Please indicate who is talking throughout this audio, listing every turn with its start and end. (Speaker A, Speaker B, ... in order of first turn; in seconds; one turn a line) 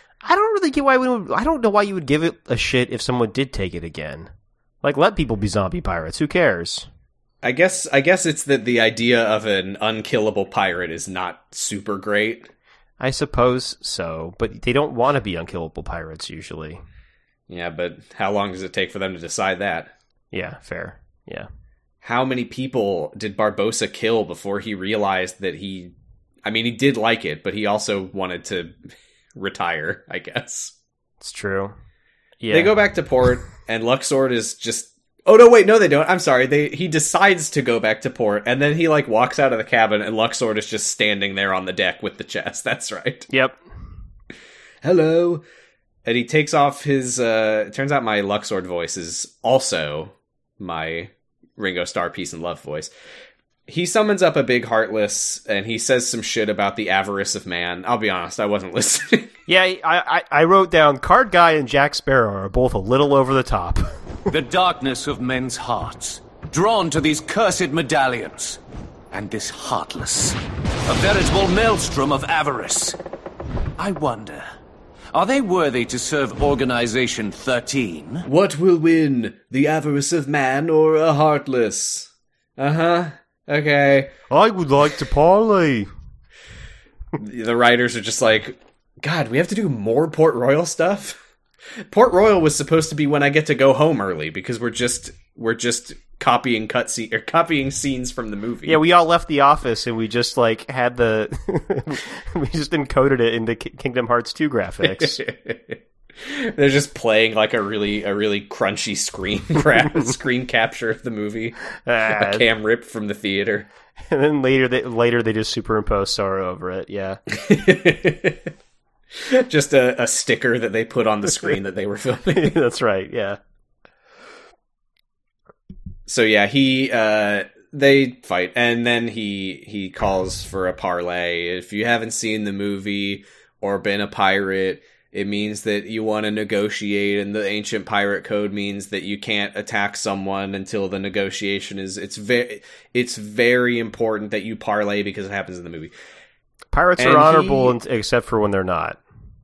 Speaker A: 0.2-4.3
Speaker A: 4.8-6.9
Speaker B: 7.4-12.5
Speaker A: 13.0-16.8
Speaker B: 17.5-19.9
Speaker A: 20.3-21.5
Speaker B: 22.0-28.8
Speaker B: 29.4-30.7
Speaker A: 31.2-31.8
Speaker A: 32.4-32.7
Speaker B: 32.5-43.3
Speaker A: 43.3-43.6
Speaker B: 44.8-45.4
Speaker B: 46.0-52.9
Speaker B: 53.7-59.3
Speaker A: 59.5-63.9
Speaker C: 64.3-68.6
Speaker C: 69.1-73.0
Speaker C: 73.8-74.5
Speaker C: 75.1-78.3
Speaker B: 78.3-84.2
Speaker A: 84.3-85.9
Speaker B: 87.2-91.2
Speaker B: 91.8-98.8
Speaker A: 98.7-105.2
Speaker B: 104.8-111.6
Speaker A: 111.8-112.5
Speaker B: 112.1-113.7
Speaker A: 114.1-117.2
Speaker B: 117.3-118.5
Speaker B: 119.1-122.6
Speaker A: 122.3-123.4
Speaker B: 126.1-145.9
Speaker A: 146.7-149.0
Speaker B: 147.0-147.8